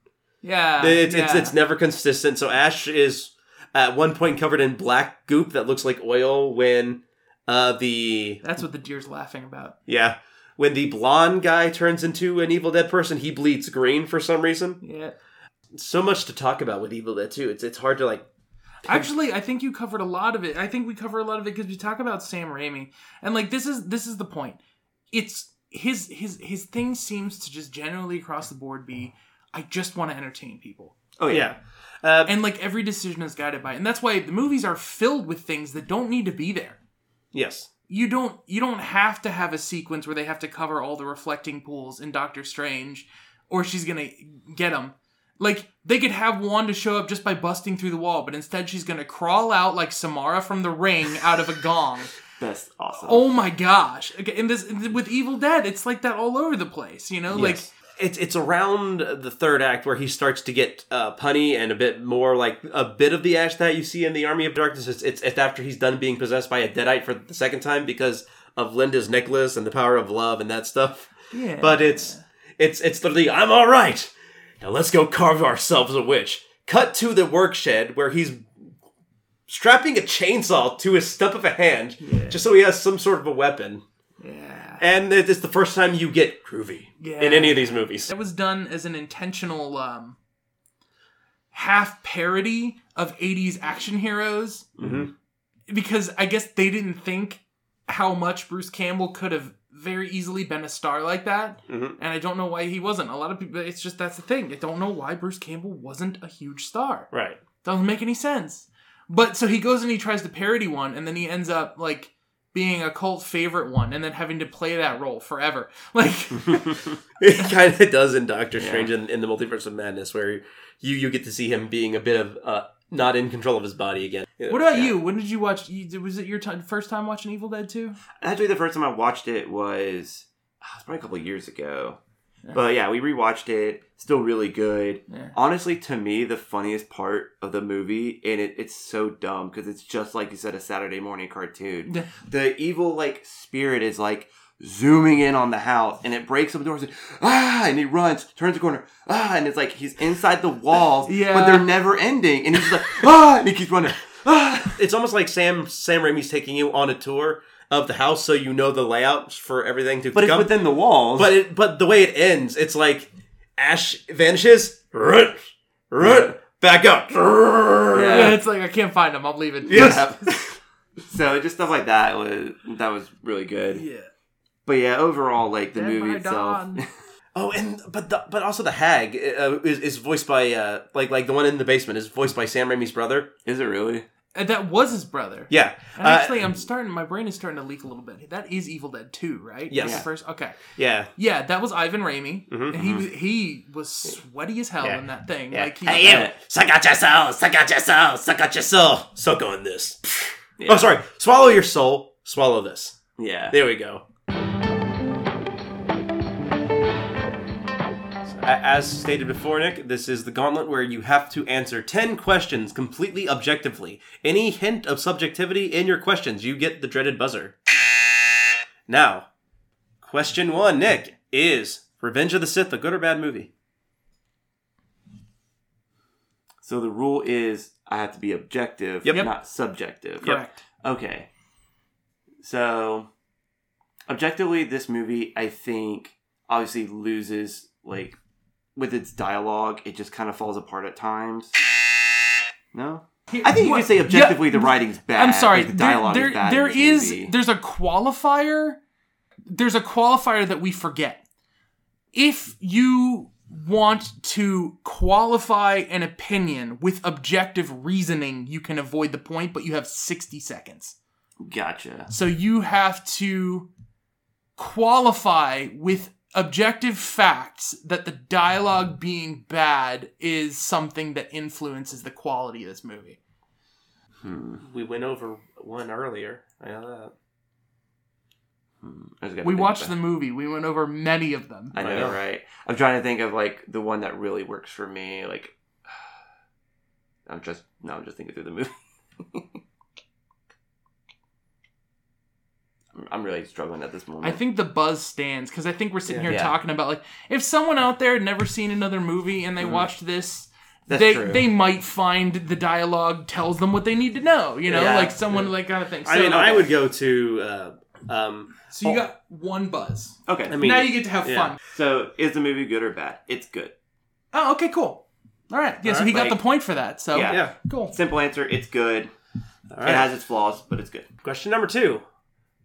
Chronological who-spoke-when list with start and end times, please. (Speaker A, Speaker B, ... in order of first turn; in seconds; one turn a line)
Speaker A: 0.4-1.5
Speaker B: 0.8-8.4
Speaker A: 8.4-9.7
Speaker B: 9.9-14.8
Speaker A: 14.8-15.2
Speaker B: 15.7-18.2
Speaker A: 18.9-24.6
Speaker A: 25.1-30.9
Speaker C: 31.2-31.5
Speaker B: 31.3-32.3
Speaker A: 32.2-36.8
Speaker B: 37.3-37.7
Speaker A: 37.9-52.1
Speaker C: 52.4-53.3
Speaker A: 53.0-57.7
Speaker B: 57.3-78.7
Speaker A: 71.3-72.2
Speaker B: 79.5-83.8
Speaker A: 82.0-82.4
Speaker A: 84.2-84.8
Speaker B: 84.8-88.1
Speaker A: 87.0-90.2
Speaker A: 91.5-94.7
Speaker C: 94.8-95.0
Speaker B: 94.8-95.1
Speaker A: 95.7-107.1
Speaker B: 101.7-102.0
Speaker B: 107.1-107.4
Speaker A: 107.6-116.8
Speaker B: 117.2-124.9
Speaker C: 118.6-118.9
Speaker A: 124.5-128.0
Speaker C: 128.2-132.0
Speaker C: 132.5-154.8
Speaker A: 151.1-151.7
Speaker B: 154.8-160.5
Speaker C: 160.1-161.3
Speaker B: 161.2-168.4
Speaker C: 166.0-166.3
Speaker C: 167.9-168.4
Speaker A: 168.1-170.5
Speaker B: 169.7-170.5
Speaker C: 169.7-170.2
Speaker C: 171.1-173.8
Speaker A: 173.7-174.1
Speaker C: 174.7-176.9
Speaker A: 175.7-176.8
Speaker B: 177.3-183.3
Speaker C: 183.4-184.0
Speaker A: 184.3-190.6
Speaker B: 185.5-186.5
Speaker B: 189.7-190.1
Speaker C: 189.8-190.1
Speaker B: 190.7-191.1
Speaker A: 191.1-196.3
Speaker B: 192.5-192.7
Speaker C: 192.7-193.0
Speaker B: 194.8-204.0
Speaker C: 195.8-196.3
Speaker C: 200.6-201.0
Speaker C: 203.2-203.5
Speaker B: 208.2-217.5
Speaker B: 218.9-219.3
Speaker B: 220.0-223.5
Speaker C: 226.6-231.3
Speaker A: 230.2-230.6
Speaker C: 232.4-233.1
Speaker C: 234.1-238.2
Speaker C: 238.7-241.6
Speaker C: 242.7-247.3
Speaker A: 243.3-248.8
Speaker A: 249.5-251.2
Speaker A: 252.1-261.0
Speaker C: 261.4-262.1
Speaker A: 262.1-263.7
Speaker A: 264.6-273.2
Speaker C: 274.2-274.6
Speaker B: 274.6-277.1
Speaker C: 278.8-279.9
Speaker A: 279.4-281.8
Speaker C: 281.7-286.1
Speaker B: 281.8-282.2
Speaker C: 287.3-289.6
Speaker C: 292.9-294.4
Speaker A: 294.2-306.7
Speaker C: 296.2-296.6
Speaker C: 299.6-299.9
Speaker C: 300.9-301.5
Speaker C: 304.6-305.4
Speaker B: 306.0-309.0
Speaker C: 306.3-306.6
Speaker A: 308.7-311.6
Speaker C: 310.2-310.6
Speaker B: 310.5-311.5
Speaker C: 311.7-313.7
Speaker A: 314.3-317.9
Speaker B: 315.8-316.4
Speaker C: 317.1-319.1
Speaker B: 317.2-317.5
Speaker B: 319.7-320.1
Speaker C: 319.8-321.1
Speaker B: 321.2-322.0